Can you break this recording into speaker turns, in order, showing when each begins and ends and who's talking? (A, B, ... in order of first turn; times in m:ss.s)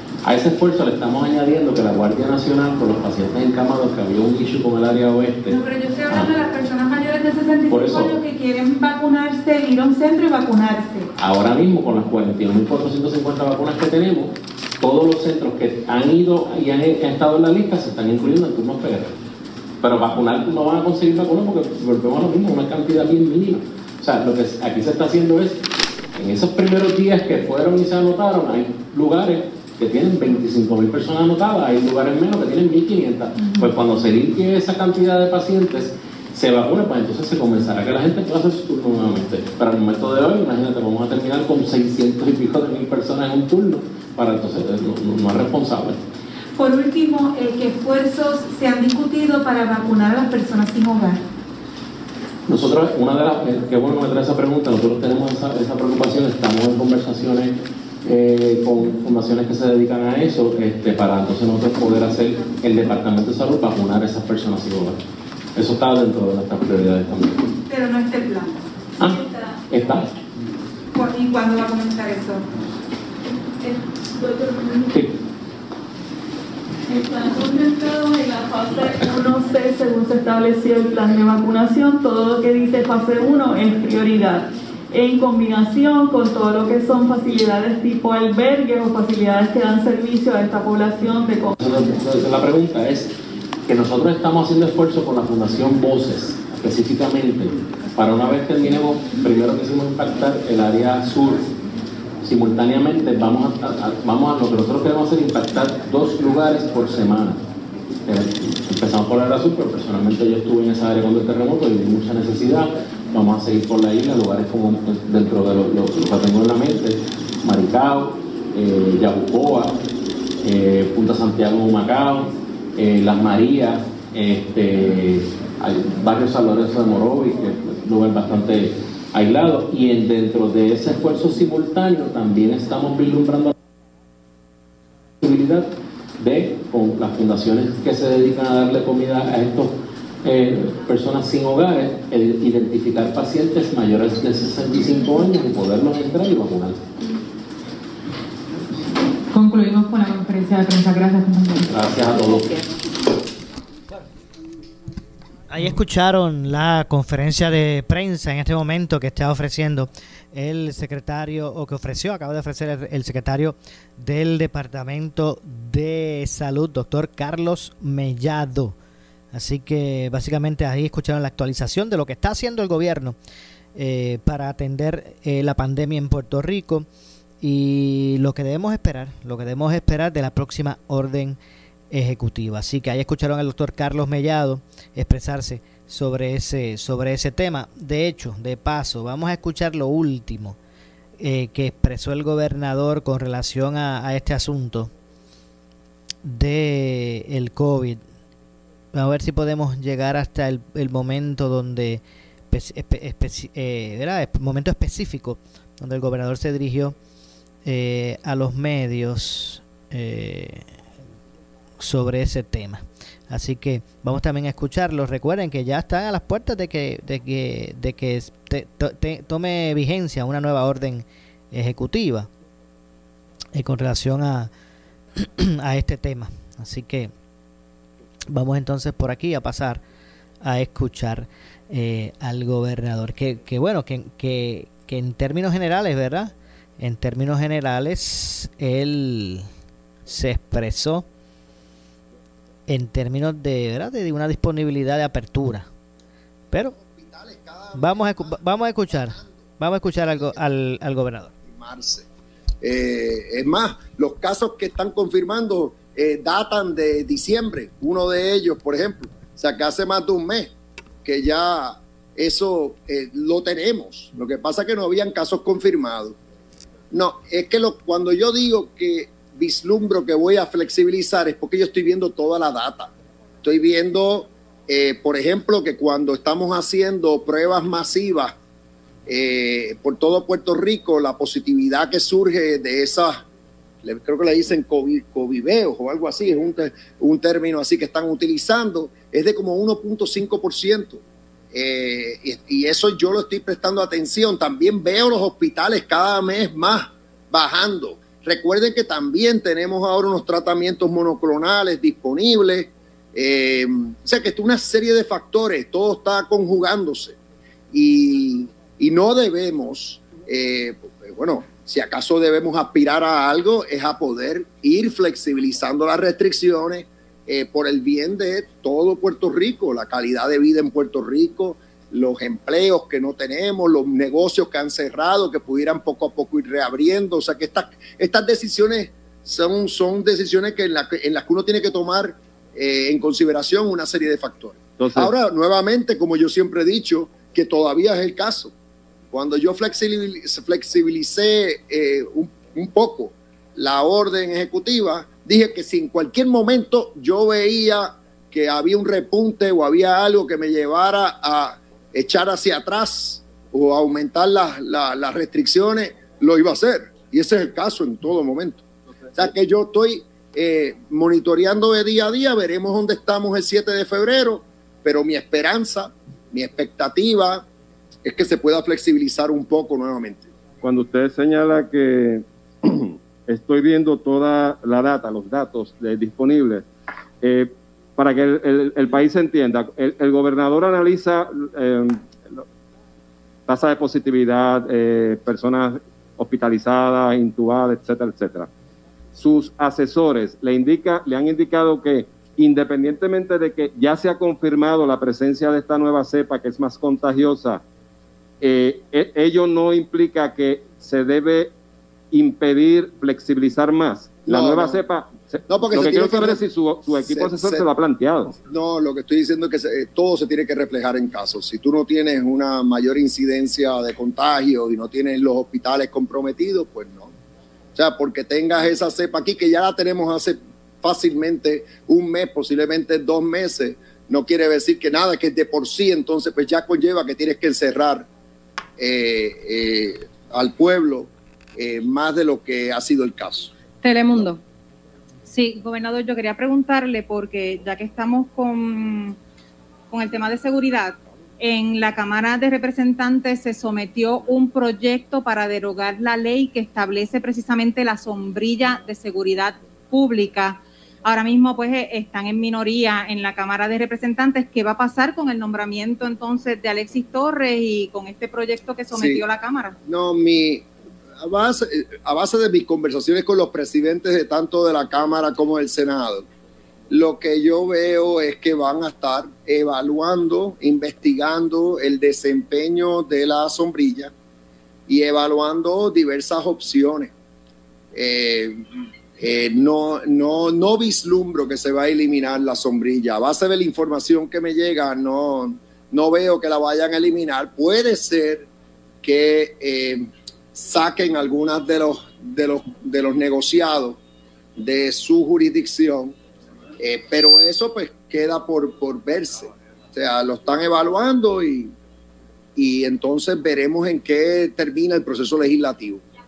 0:00.2-0:05.6 A
0:05.5-0:11.1 B
0:07.7-0:08.2 A
0:11.2-0:19.1 A
0:19.8-0:25.6 A
0:26.1-0:46.0 A
0:33.4-0:33.7 C
0:46.6-0:51.2 B
0:52.5-1:05.0 A
1:05.5-1:07.5 A
1:07.7-1:10.0 B
1:09.0-1:10.1 A
1:10.9-1:12.4 B
1:14.2-1:14.9 D
1:16.9-1:31.6 D
1:31.6-1:33.1 A
1:33.7-1:41.5 A
1:42.2-1:47.4 A
1:48.0-1:59.8 A
2:00.4-2:13.5 A
2:15.2-2:26.8 A
2:29.3-2:31.7 C
2:31.7-2:32.5 A
2:35.5-2:48.8 E
2:49.3-2:53.2 E
2:53.7-2:56.9 E
2:57.4-3:01.4 E
3:01.9-3:10.6 E
3:11.2-3:14.9 E
3:16.2-3:18.0 E
3:18.9-3:26.9 E
3:27.6-3:30.7 E
3:31.8-3:42.3 E
3:43.5-3:44.5 E
3:45.2-3:47.1 E
3:48.3-3:49.8 E
3:50.4-3:59.5 E
4:00.1-4:01.0 E
4:02.7-4:05.7 E
4:06.6-4:10.4 F
4:07.7-4:11.3 E
4:11.4-4:12.0 F
4:12.6-4:20.5 F
4:21.0-4:26.2 F
4:26.9-4:32.9 F
4:33.4-4:38.4 F
4:39.1-4:43.2 F
4:43.8-4:51.0 F
4:51.5-5:07.2 F
5:07.7-5:38.5 F
5:34.8-5:35.1 G
5:39.1-5:58.6 F
5:59.1-6:07.4 F
6:08.0-6:10.3 F
6:10.6-6:16.7 G
6:17.2-6:22.4 G
6:23.5-6:28.5 G
6:29.1-6:37.6 G
6:38.4-6:41.5 G
6:42.1-6:48.4 G
6:44.2-6:44.8 F
6:45.5-6:47.7 F
6:48.4-6:57.1 F
6:57.7-7:08.1 F
7:08.8-7:13.5 F
7:13.8-7:14.4 H
7:15.3-7:19.2 H
7:19.9-7:39.8 H
7:38.9-7:39.2 F
7:39.8-7:40.7 F
7:41.2-7:46.3 F
7:46.9-7:54.1 F
7:54.9-7:57.1 F
7:57.9-7:58.6 F
7:59.2-8:08.5 F
8:09.0-8:14.0 F
8:14.6-8:16.1 F
8:16.8-8:21.7 F
8:22.6-8:26.0 F